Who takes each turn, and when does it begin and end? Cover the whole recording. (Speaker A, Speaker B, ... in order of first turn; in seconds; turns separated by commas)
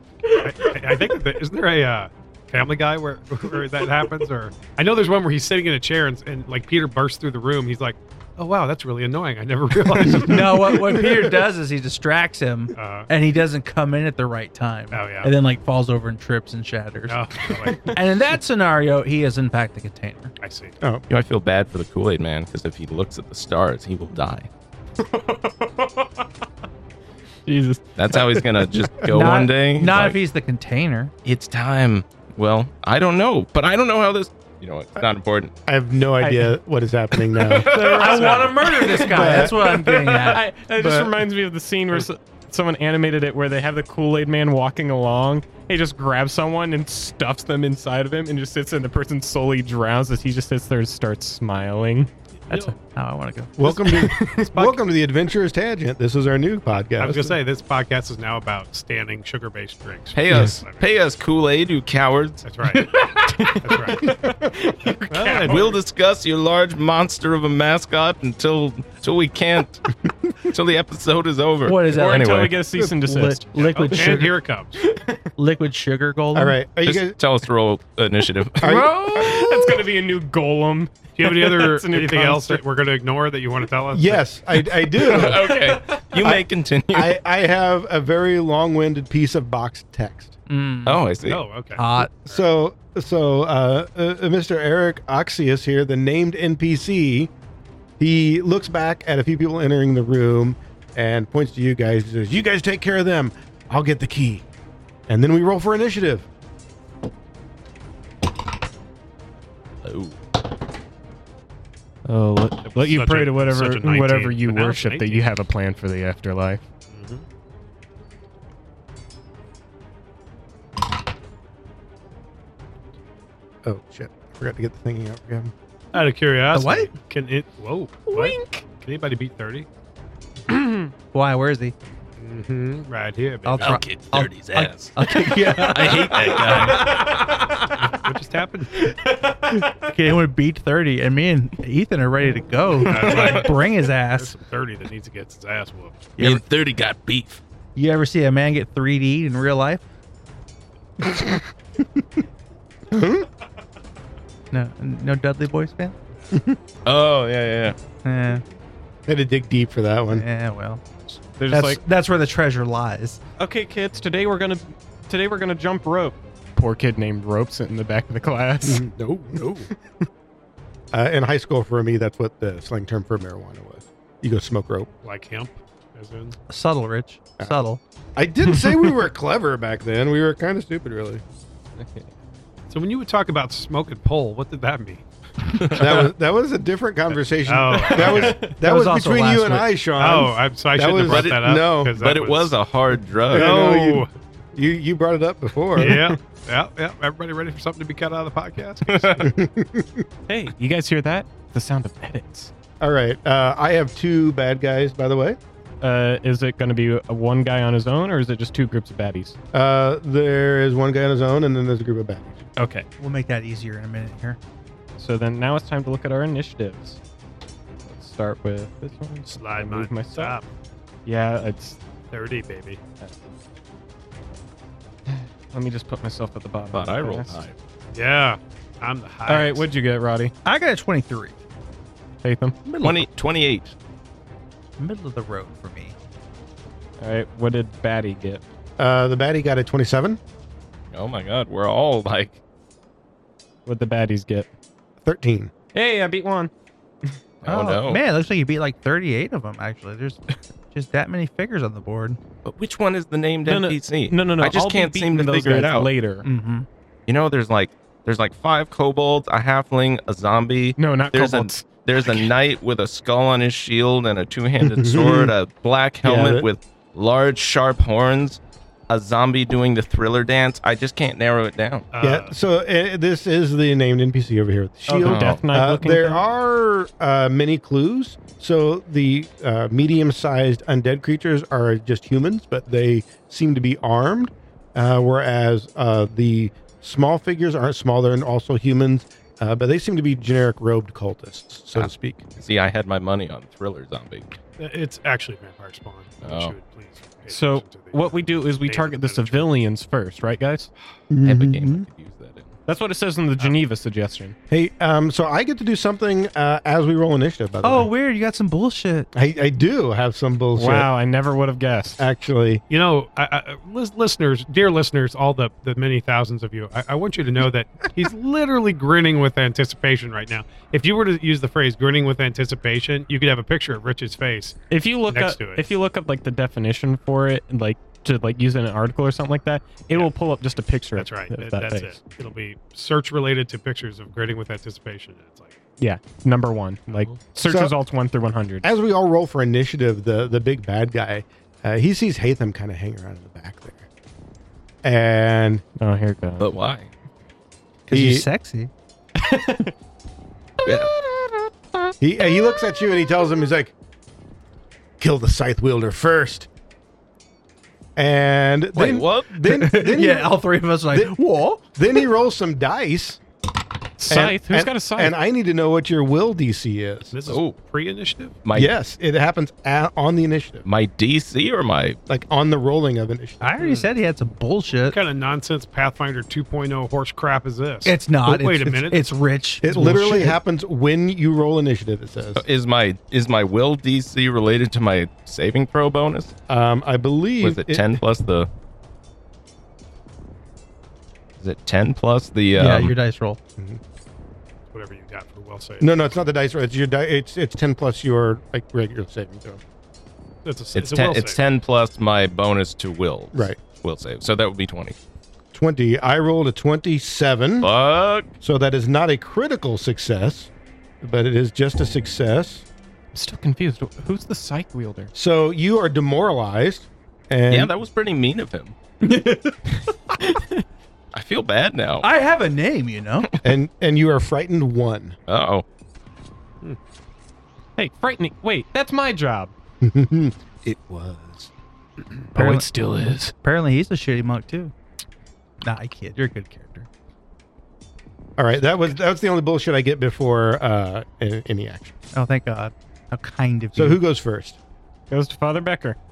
Speaker A: 0.4-10.7, Speaker B: 10.2-17.2, Speaker A: 12.8-13.1, Speaker A: 14.9-15.3, Speaker A: 17.1-17.9, Speaker C: 17.6-17.9, Speaker B: 17.9-20.3, Speaker A: 20.4-20.8, Speaker D: 21.1-24.5, Speaker C: 25.0-26.2, Speaker C: 27.5-27.8, Speaker D: 28.0-30.2, Speaker B: 29.1-31.1, Speaker D: 31.2-35.5, Speaker E: 35.7-37.7, Speaker C: 36.2-36.5, Speaker C: 37.2-52.1, Speaker B: 37.7-40.5, Speaker E: 39.1-39.6, Speaker E: 40.8-41.2, Speaker B: 52.5-54.1, Speaker E: 53.6-57.4, Speaker A: 57.0-60.9, Speaker D: 60.1-62.4, Speaker E: 60.3-60.6, Speaker A: 62.5-62.9, Speaker C: 62.8-65.8, Speaker A: 63.6-64.1, Speaker A: 65.1-65.8, Speaker D: 65.5-72.6, Speaker B: 71.7-74.3, Speaker C: 71.9-75.2, Speaker A: 73.9-74.8, Speaker B: 75.4-76.6, Speaker E: 76.3-77.2, Speaker D: 76.8-78.9, Speaker E: 78.6-79.8, Speaker C: 78.6-82.6, Speaker A: 81.2-84.2, Speaker E: 83.9-85.5, Speaker D: 85.0-87.2, Speaker C: 85.1-86.2, Speaker E: 86.2-90.3, Speaker B: 90.5-91.0, Speaker D: 90.9-91.4, Speaker A: 91.3-92.4, Speaker B: 91.8-92.1, Speaker E: 92.2-97.3, Speaker E: 98.0-104.4, Speaker E: 105.1-106.3, Speaker D: 109.8-110.2, Speaker C: 112.1-116.6, Speaker A: 112.7-115.3, Speaker A: 116.9-117.2, Speaker E: 123.6-125.5, Speaker A: 125.9-129.7, Speaker B: 126.5-126.9, Speaker B: 131.1-131.8, Speaker A: 132.2-133.8, Speaker B: 133.4-137.1, Speaker D: 133.6-136.9, Speaker A: 136.3-136.9, Speaker C: 136.9-137.3, Speaker A: 137.9-138.8, Speaker B: 139.5-144.3, Speaker A: 142.8-146.0, Speaker D: 143.0-143.4, Speaker B: 146.2-146.4, Speaker D: 146.2-147.4, Speaker B: 147.8-149.8, Speaker E: 151.0-152.2, Speaker E: 152.9-153.3, Speaker B: 154.5-155.9, Speaker E: 156.3-156.6, Speaker D: 156.8-157.8, Speaker B: 158.0-158.4, Speaker E: 159.1-160.2, Speaker B: 160.1-160.8, Speaker C: 161.4-161.8, Speaker B: 161.5-163.2, Speaker C: 163.4-168.8, Speaker E: 168.6-169.7, Speaker E: 170.9-174.9, Speaker A: 175.0-176.4, Speaker B: 176.5-177.8, Speaker E: 178.2-181.2, Speaker C: 178.6-178.8, Speaker C: 181.8-182.1, Speaker A: 182.7-185.0, Speaker D: 185.6-186.1, Speaker E: 185.8-192.0, Speaker A: 187.4-188.4, Speaker B: 188.4-189.7, Speaker A: 190.0-192.6, Speaker D: 191.0-193.6, Speaker E: 193.3-196.2, Speaker A: 193.3-194.1, Speaker A: 195.8-199.3, Speaker D: 198.8-199.3, Speaker E: 199.2-200.1, Speaker C: 200.3-202.5, Speaker E: 202.8-205.4, Speaker C: 205.8-209.4, Speaker E: 209.5-212.4, Speaker C: 212.6-212.9, Speaker B: 213.0-214.4, Speaker C: 215.0-217.0, Speaker C: 217.8-220.4, Speaker A: 219.3-220.5, Speaker C: 221.1-221.8, Speaker A: 222.1-222.8, Speaker C: 225.1-227.4, Speaker D: 226.7-227.5, Speaker A: 227.9-229.7, Speaker C: 229.3-230.3, Speaker B: 230.4-231.3, Speaker C: 232.2-232.6, Speaker B: 232.7-233.1, Speaker D: 232.8-233.7, Speaker B: 234.8-235.9, Speaker C: 237.0-238.4, Speaker E: 238.8-240.2, Speaker D: 240.9-242.4, Speaker C: 243.7-244.5, Speaker E: 245.0-245.5, Speaker C: 245.7-246.5, Speaker D: 247.4-248.0, Speaker B: 247.5-252.2, Speaker D: 252.4-255.9, Speaker C: 253.4-256.3, Speaker B: 256.2-256.7, Speaker D: 257.1-271.9, Speaker C: 260.8-262.2, Speaker E: 264.6-265.3, Speaker E: 266.0-266.5, Speaker A: 271.9-272.3, Speaker E: 272.0-292.2, Speaker C: 274.9-276.2, Speaker D: 275.0-275.4, Speaker D: 291.8-294.3, Speaker A: 294.6-299.5, Speaker D: 296.2-296.6, Speaker C: 297.3-300.7, Speaker E: 301.1-301.9, Speaker D: 301.2-302.6, Speaker C: 302.7-304.4, Speaker E: 304.5-307.9, Speaker B: 307.6-309.1, Speaker E: 309.1-310.9, Speaker C: 310.6-312.0, Speaker E: 312.0-312.6, Speaker A: 312.7-325.7, Speaker C: 324.7-332.0, Speaker A: 330.9-335.6, Speaker C: 335.8-338.6, Speaker A: 336.9-337.2, Speaker E: 337.4-337.8, Speaker E: 338.6-343.9, Speaker E: 344.8-345.6, Speaker C: 345.8-346.5, Speaker D: 346.4-346.9, Speaker B: 347.9-348.7, Speaker E: 347.9-348.3, Speaker C: 349.1-349.7, Speaker D: 350.6-350.9, Speaker C: 350.6-351.4, Speaker E: 352.0-353.7, Speaker E: 355.0-356.5, Speaker E: 358.0-360.4, Speaker D: 358.8-359.2, Speaker B: 358.8-361.6, Speaker E: 360.9-361.2, Speaker E: 361.7-363.2, Speaker C: 364.0-365.1, Speaker E: 364.1-367.1, Speaker A: 367.1-368.4, Speaker D: 367.3-367.6, Speaker D: 368.4-368.7, Speaker E: 368.5-370.7, Speaker D: 370.6-372.0, Speaker E: 372.1-373.4, Speaker B: 373.4-375.0, Speaker A: 373.6-373.9, Speaker A: 374.9-379.1, Speaker B: 377.9-380.4, Speaker E: 379.6-382.4, Speaker D: 382.4-386.3, Speaker E: 386.5-388.0, Speaker D: 387.4-388.5, Speaker D: 391.4-392.9, Speaker B: 392.5-393.4, Speaker A: 394.7-395.9, Speaker E: 395.8-399.6, Speaker A: 400.4-401.4, Speaker D: 400.8-405.0, Speaker E: 403.3-403.6, Speaker E: 405.5-407.7, Speaker D: 407.6-408.3, Speaker E: 408.4-410.5, Speaker E: 411.0-412.7, Speaker C: 413.1-415.1, Speaker E: 415.1-417.7, Speaker D: 417.5-418.8, Speaker B: 419.0-419.6, Speaker C: 420.4-420.6, Speaker D: 421.1-422.1, Speaker B: 422.0-423.3, Speaker E: 423.4-425.2, Speaker D: 425.3-425.6, Speaker C: 427.8-429.5, Speaker E: 429.8-431.5, Speaker B: 432.4-432.7, Speaker C: 432.4-433.3, Speaker B: 433.4-434.7, Speaker B: 435.6-436.9, Speaker E: 438.4-441.9, Speaker B: 442.1-444.0, Speaker E: 443.7-444.6, Speaker C: 445.1-446.0